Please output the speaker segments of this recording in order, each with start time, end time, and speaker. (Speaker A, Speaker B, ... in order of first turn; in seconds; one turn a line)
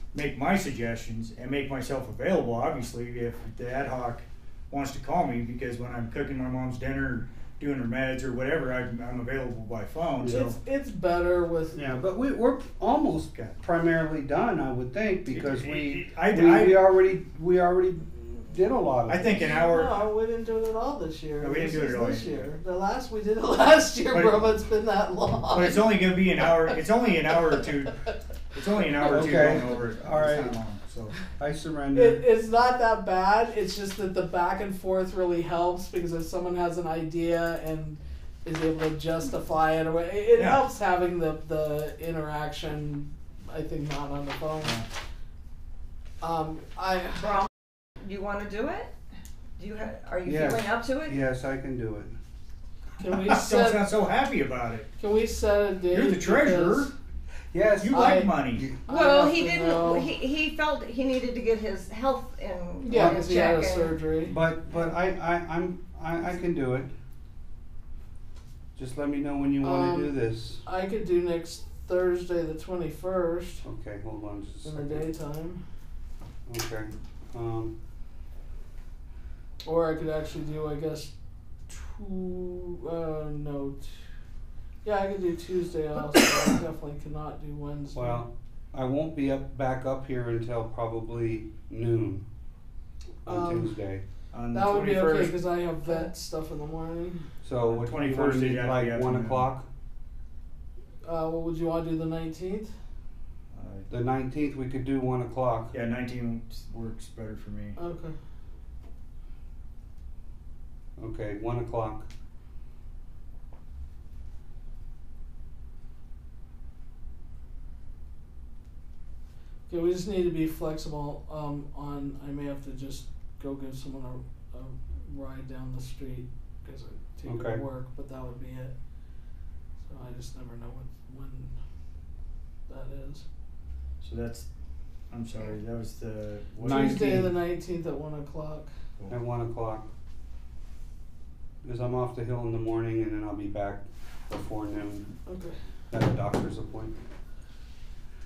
Speaker A: 0.1-10.6
Speaker B: 10.2-10.4
Speaker C: 10.3-11.8
Speaker B: 11.7-19.5
Speaker A: 15.3-16.8
Speaker A: 19.1-20.0
Speaker C: 19.6-26.0
Speaker A: 21.4-22.5
Speaker A: 24.1-24.4
Speaker A: 25.5-31.1
Speaker B: 29.0-30.6
Speaker B: 31.3-32.2
Speaker C: 31.9-44.8
Speaker A: 40.4-40.7
Speaker A: 44.6-44.9
Speaker C: 46.2-47.4
Speaker D: 48.0-48.9
Speaker D: 49.6-51.2
Speaker B: 50.2-52.1
Speaker C: 53.0-53.9
Speaker A: 53.1-54.9
Speaker C: 55.0-56.9
Speaker A: 55.9-56.9
Speaker B: 57.5-58.8
Speaker A: 57.8-58.7
Speaker C: 57.9-60.1
Speaker D: 58.9-64.0
Speaker C: 62.8-64.4
Speaker B: 62.9-63.3
Speaker B: 64.2-66.9
Speaker B: 68.8-70.6
Speaker C: 69.6-73.6
Speaker B: 73.6-75.1
Speaker C: 74.6-75.6
Speaker B: 76.5-77.7
Speaker C: 79.6-81.1
Speaker C: 81.7-83.9
Speaker C: 84.8-88.2
Speaker B: 87.9-92.2
Speaker C: 93.2-93.8
Speaker B: 93.2-94.0
Speaker A: 94.3-95.3
Speaker C: 94.5-97.3
Speaker B: 97.4-99.7
Speaker A: 97.7-99.5
Speaker C: 101.0-102.7
Speaker A: 103.5-103.9
Speaker B: 103.9-105.7
Speaker A: 105.7-107.8
Speaker C: 107.8-108.1
Speaker B: 111.0-112.0
Speaker C: 119.7-128.7
Speaker B: 127.3-127.6
Speaker C: 129.9-131.5
Speaker C: 132.7-133.2
Speaker A: 134.0-134.5
Speaker A: 135.1-137.2
Speaker B: 136.6-137.3
Speaker C: 136.7-138.7
Speaker B: 139.1-139.9
Speaker B: 141.6-145.1
Speaker C: 145.2-145.6
Speaker B: 145.9-146.9